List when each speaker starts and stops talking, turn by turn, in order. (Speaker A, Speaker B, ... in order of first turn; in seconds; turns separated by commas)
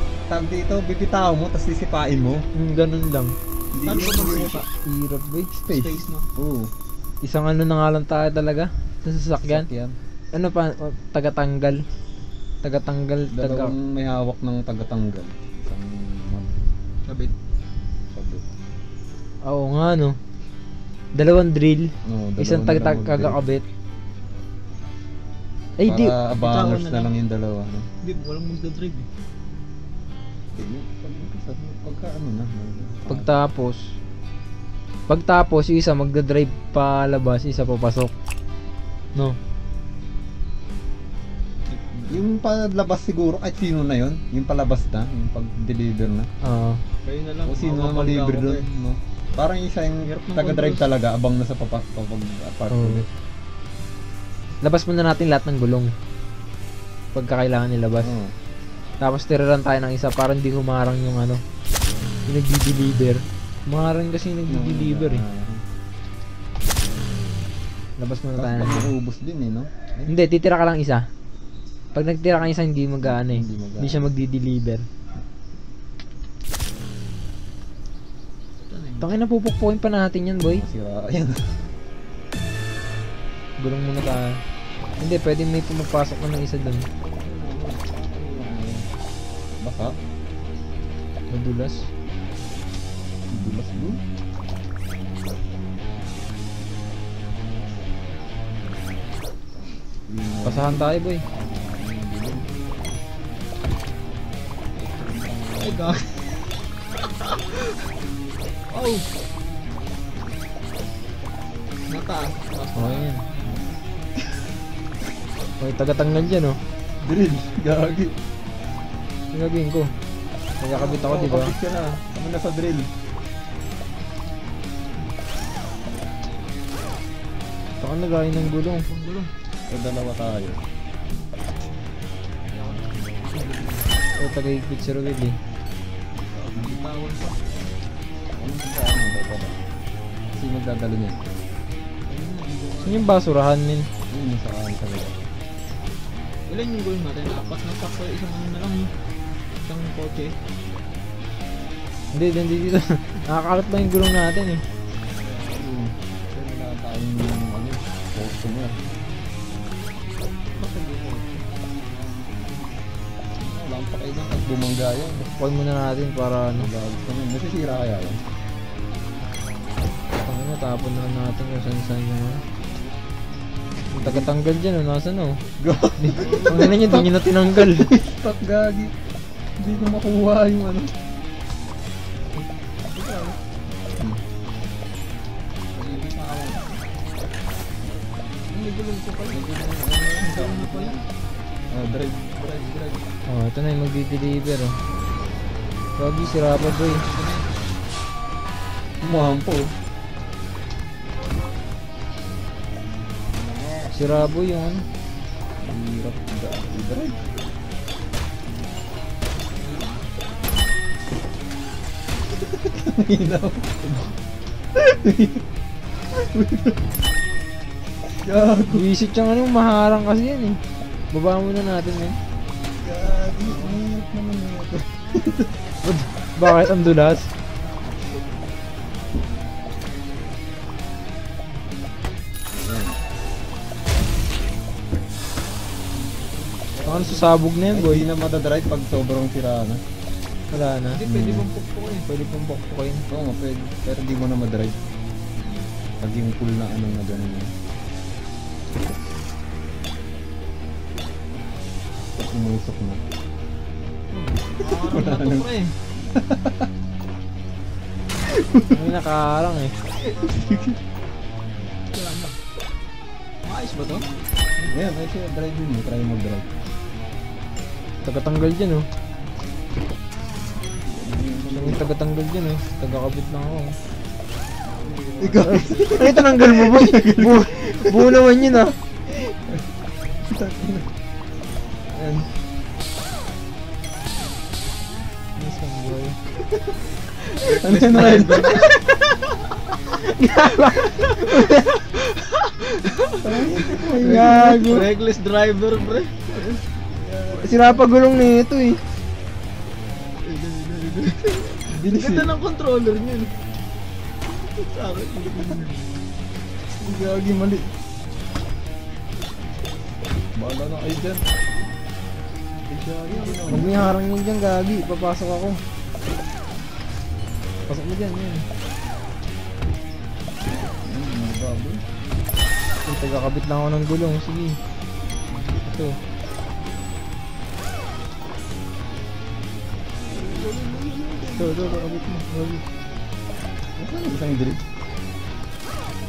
Speaker A: 0.3-2.4, Speaker B: 2.5-3.3, Speaker A: 3.7-4.6, Speaker C: 3.8-4.7, Speaker B: 4.8-5.9, Speaker C: 5.7-6.3, Speaker A: 6.3-6.7, Speaker B: 7.2-9.7, Speaker A: 9.4-9.9, Speaker B: 10.3-11.8, Speaker B: 12.6-13.7, Speaker A: 13.3-16.6, Speaker C: 17.1-17.3, Speaker A: 18.1-18.4, Speaker B: 19.4-20.2, Speaker B: 21.1-23.6, Speaker A: 22.0-23.4, Speaker B: 25.8-26.1, Speaker A: 25.9-27.9, Speaker C: 26.4-27.1, Speaker C: 28.0-29.1, Speaker A: 30.5-33.3, Speaker B: 33.1-33.9, Speaker B: 35.1-38.1, Speaker C: 41.7-42.2, Speaker A: 42.1-46.3, Speaker B: 46.4-46.8, Speaker C: 47.0-48.6, Speaker A: 47.5-53.1, Speaker C: 50.0-50.8, Speaker B: 52.7-53.0, Speaker B: 54.6-55.9, Speaker B: 57.1-58.1, Speaker A: 58.0-58.3, Speaker B: 59.0-61.4, Speaker B: 62.2-65.2, Speaker A: 64.5-65.6, Speaker B: 68.0-68.9, Speaker A: 68.4-70.1, Speaker B: 70.1-71.1, Speaker B: 71.9-74.8, Speaker A: 73.0-74.0, Speaker C: 78.7-79.1, Speaker B: 79.0-80.6, Speaker A: 80.4-81.6, Speaker B: 83.6-84.4, Speaker B: 85.0-86.8, Speaker A: 87.1-88.9, Speaker A: 89.6-90.0, Speaker B: 91.3-91.9, Speaker A: 93.3-94.0, Speaker A: 99.6-102.5, Speaker B: 100.4-101.2, Speaker A: 104.7-106.0, Speaker C: 105.6-106.2, Speaker C: 107.3-107.7, Speaker C: 108.7-109.1, Speaker C: 111.9-113.6, Speaker B: 112.8-113.2, Speaker B: 115.6-116.6, Speaker A: 117.0-118.1, Speaker B: 119.3-119.9, Speaker B: 120.6-121.5, Speaker A: 120.7-122.9, Speaker B: 127.8-128.8, Speaker C: 128.8-129.3, Speaker A: 129.7-130.6, Speaker C: 132.5-134.0, Speaker B: 134.2-135.3, Speaker A: 136.3-136.6, Speaker C: 136.5-137.5, Speaker A: 138.3-139.6, Speaker A: 140.3-141.2, Speaker C: 142.1-143.2, Speaker B: 142.8-143.9, Speaker A: 144.1-145.2, Speaker C: 146.5-148.9, Speaker C: 149.7-150.3, Speaker B: 152.1-154.6, Speaker C: 155.2-155.6, Speaker A: 155.5-158.8, Speaker C: 160.5-161.4, Speaker A: 163.4-165.3, Speaker B: 165.4-166.7, Speaker A: 166.6-168.2, Speaker B: 170.2-172.4, Speaker B: 173.9-175.4, Speaker A: 173.9-174.3, Speaker A: 175.6-178.9, Speaker B: 176.0-177.9, Speaker C: 176.1-176.8, Speaker A: 179.6-180.9, Speaker C: 182.4-183.4, Speaker A: 185.8-186.9, Speaker C: 188.5-189.4, Speaker A: 189.3-191.0, Speaker C: 190.2-191.0, Speaker A: 191.7-193.0, Speaker B: 193.3-194.8, Speaker B: 196.0-197.1, Speaker C: 196.8-197.4, Speaker A: 199.0-199.7, Speaker A: 203.4-203.9, Speaker B: 203.9-204.8, Speaker A: 205.6-207.2, Speaker C: 209.6-210.1, Speaker A: 212.4-214.1, Speaker A: 214.7-215.4, Speaker A: 216.2-216.8, Speaker A: 218.2-218.8, Speaker B: 218.7-220.6, Speaker B: 221.1-222.2, Speaker A: 222.8-225.5, Speaker C: 223.4-223.8, Speaker B: 225.8-227.3, Speaker A: 232.5-233.0, Speaker C: 236.0-237.3, Speaker B: 236.8-238.1, Speaker A: 237.7-239.8, Speaker B: 240.5-241.0, Speaker C: 240.9-242.1, Speaker A: 241.0-241.5, Speaker B: 242.1-243.0, Speaker A: 243.1-244.7, Speaker A: 246.0-247.5, Speaker A: 252.2-253.0, Speaker C: 254.1-255.7, Speaker A: 254.6-255.4, Speaker A: 256.1-256.6, Speaker B: 258.6-259.7, Speaker A: 260.2-260.8, Speaker C: 261.9-262.4, Speaker C: 263.4-264.1, Speaker A: 264.7-266.5, Speaker B: 268.0-268.9, Speaker A: 270.9-271.8, Speaker B: 271.5-273.8, Speaker C: 274.8-275.8, Speaker A: 275.2-278.6, Speaker B: 275.8-278.7, Speaker A: 280.3-280.9, Speaker A: 281.9-282.3, Speaker B: 285.4-286.2, Speaker C: 287.4-288.7, Speaker A: 287.4-288.7, Speaker B: 288.0-288.7, Speaker B: 290.0-291.6, Speaker C: 291.4-296.5, Speaker A: 293.2-294.6, Speaker B: 293.7-294.9, Speaker A: 297.0-297.8, Speaker B: 297.3-298.8, Speaker C: 300.1-303.3, Speaker A: 301.7-302.3, Speaker C: 304.5-305.9, Speaker A: 306.8-307.7, Speaker A: 310.4-311.2, Speaker A: 312.6-313.7, Speaker C: 313.1-313.6, Speaker B: 313.5-315.6, Speaker B: 317.7-318.4, Speaker A: 320.5-321.8, Speaker B: 322.9-324.6, Speaker B: 325.6-326.0, Speaker A: 330.1-331.5, Speaker B: 331.3-332.6, Speaker A: 333.8-334.6